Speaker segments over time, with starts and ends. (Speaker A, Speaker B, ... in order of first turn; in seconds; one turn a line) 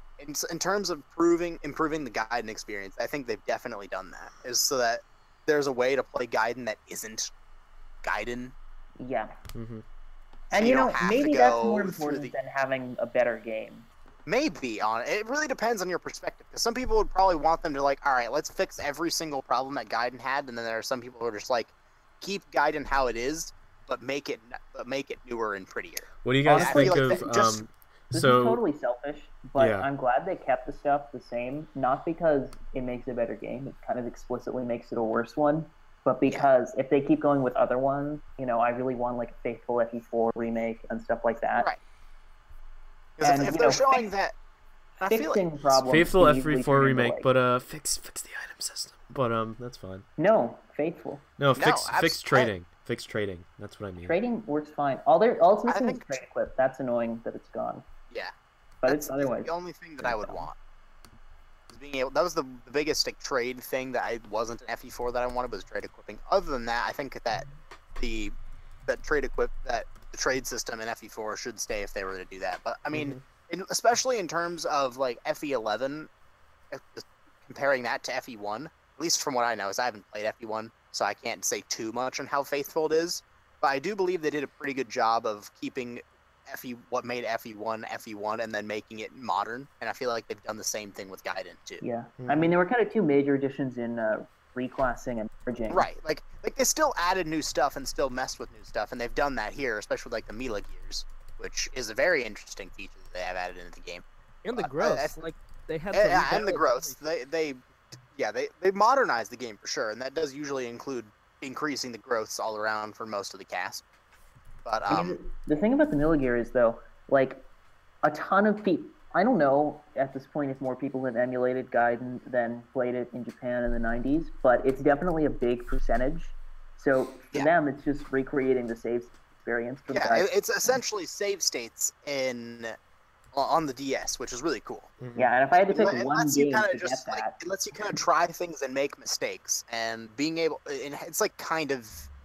Speaker A: 0.2-7.3
Speaker A: 8.0-8.6
Speaker B: 9.0-9.3
Speaker C: 9.5-9.8
Speaker B: 10.5-13.9
Speaker A: 10.5-12.3
Speaker A: 14.3-27.6
Speaker C: 26.2-28.6
Speaker B: 26.5-27.3
Speaker B: 28.1-41.7
Speaker C: 29.6-29.9
Speaker A: 43.2-44.4
Speaker B: 43.2-44.1
Speaker B: 45.0-47.3
Speaker A: 45.0-45.4
Speaker C: 45.8-50.1
Speaker B: 50.2-51.2
Speaker C: 51.4-54.2
Speaker A: 51.5-52.5
Speaker B: 54.0-57.8
Speaker A: 55.7-56.2
Speaker B: 58.8-60.5
Speaker A: 58.9-60.5
Speaker A: 61.7-68.3
Speaker A: 68.9-76.1
Speaker C: 72.9-73.2
Speaker A: 76.7-91.8
Speaker B: 91.8-95.9
Speaker C: 92.2-92.5
Speaker A: 95.7-104.0
Speaker D: 104.4-107.0
Speaker A: 104.5-105.1
Speaker A: 105.9-107.6
Speaker A: 108.2-113.8
Speaker A: 114.7-115.2
Speaker B: 114.9-117.4
Speaker B: 118.0-130.3
Speaker A: 129.9-132.8
Speaker A: 133.3-134.9
Speaker C: 135.0-135.3
Speaker B: 135.2-137.4
Speaker A: 135.7-142.1